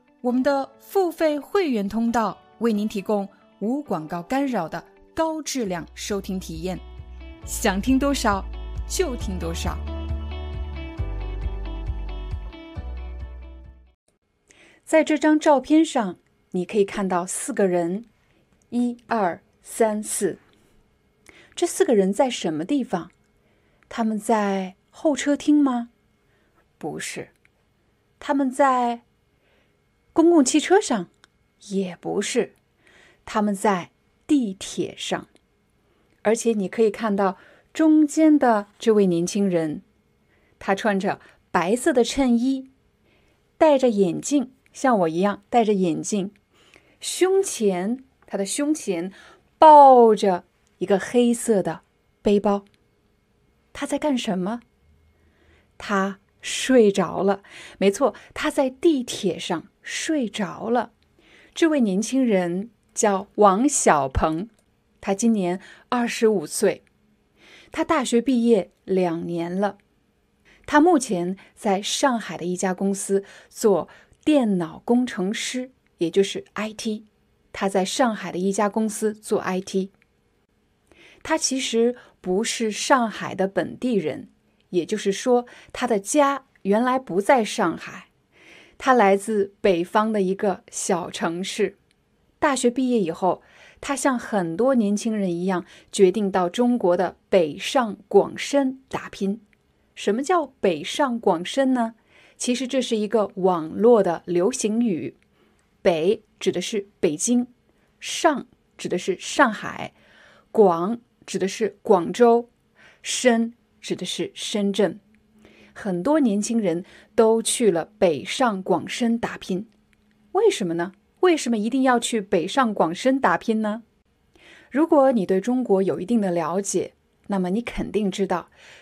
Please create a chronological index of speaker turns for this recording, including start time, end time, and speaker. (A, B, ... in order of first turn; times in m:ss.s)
0:00.2-0:06.8 A
0:07.4-0:09.8 A
0:14.9-0:18.1 A
0:18.7-0:20.4 A
0:21.6-0:23.1 A
0:23.9-0:25.9 A
0:26.8-0:27.3 A
0:28.2-0:29.0 A
0:30.1-0:31.1 A
0:31.6-0:32.6 A
0:33.3-0:35.3 A
0:36.2-0:39.8 A
0:40.6-0:42.7 A
0:43.6-0:46.3 A
0:47.0-0:52.7 A
0:53.7-0:54.6 A
0:55.8-1:00.9 A
1:01.5-1:04.5 A
1:05.0-1:06.8 A
1:07.7-1:09.8 A
1:10.7-1:19.9 A
1:21.2-1:28.1 A
1:28.8-1:31.8 A
1:32.4-1:39.4 A
1:40.0-1:45.2 A
1:45.8-1:49.9 A
1:50.5-1:52.5 A
1:53.0-1:55.0 A
1:55.8-1:59.7 A
2:00.3-2:03.8 A
2:04.7-2:08.5 A